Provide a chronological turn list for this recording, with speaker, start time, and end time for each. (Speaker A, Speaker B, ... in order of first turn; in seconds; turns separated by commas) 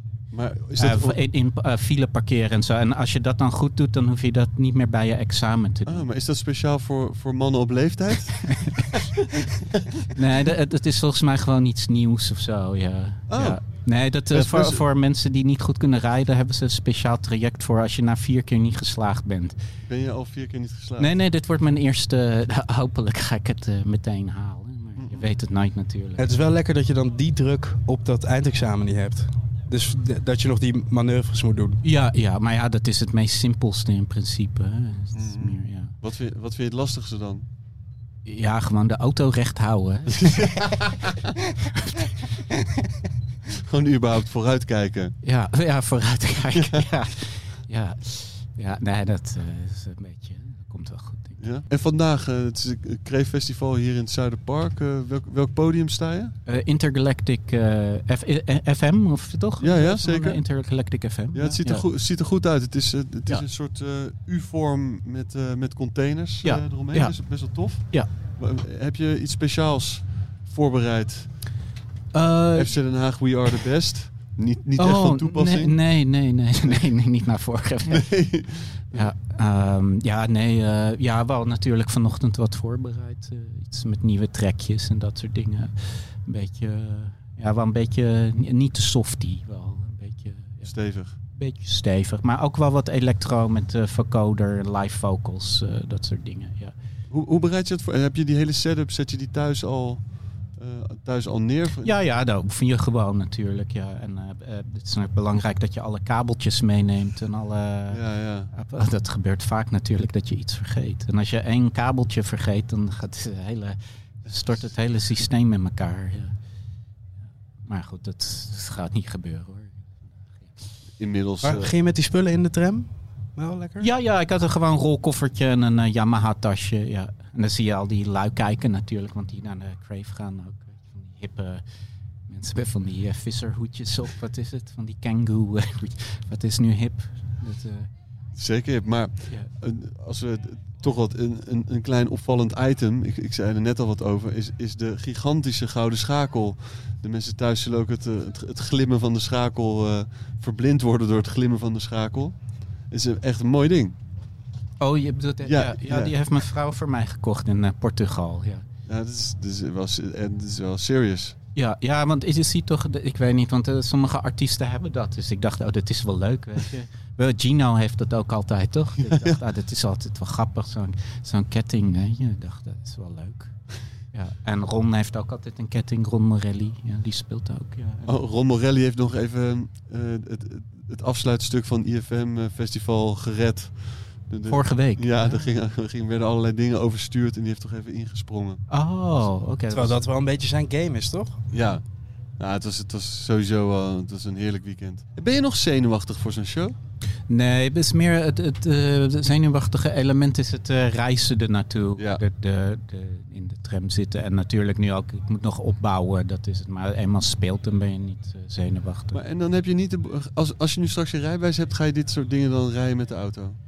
Speaker A: 0.3-1.2, Speaker B: 0.8-6.1, Speaker A: 5.9-10.0, Speaker B: 8.5-8.8, Speaker B: 10.1-19.6, Speaker A: 13.3-13.6, Speaker A: 14.3-14.8, Speaker A: 19.9-21.1, Speaker B: 21.0-26.4, Speaker A: 25.0-25.2, Speaker C: 26.2-31.8, Speaker B: 31.8-35.9, Speaker A: 35.2-37.5, Speaker B: 38.2-40.8, Speaker A: 40.2-40.9, Speaker B: 41.8-42.1, Speaker A: 43.7-45.1, Speaker B: 45.2-51.4, Speaker A: 46.6-46.8, Speaker A: 51.4-56.3, Speaker B: 56.5-61.9, Speaker A: 59.6-60.4, Speaker A: 61.3-71.3, Speaker B: 66.4-68.1, Speaker B: 72.1-72.8, Speaker A: 72.5-75.8, Speaker B: 74.8-78.1, Speaker A: 77.9-79.1, Speaker B: 78.9-90.7, Speaker A: 90.7-91.1, Speaker B: 91.3-96.8, Speaker A: 97.1-101.9, Speaker B: 101.8-116.3, Speaker A: 107.9-108.5, Speaker B: 117.7-120.6, Speaker A: 121.0-121.7, Speaker C: 121.4-123.9, Speaker B: 123.8-131.6, Speaker B: 132.3-137.9, Speaker A: 138.4-152.3, Speaker A: 152.9-154.0, Speaker B: 154.8-158.7, Speaker A: 155.4-156.1, Speaker A: 158.9-161.4, Speaker B: 161.6-173.6, Speaker A: 169.1-169.4, Speaker B: 174.1-178.2, Speaker A: 178.1-188.6, Speaker B: 184.5-185.5, Speaker B: 188.7-190.0, Speaker C: 189.7-191.4, Speaker A: 191.5-191.8, Speaker A: 192.4-196.7, Speaker B: 197.3-209.2, Speaker A: 209.1-213.6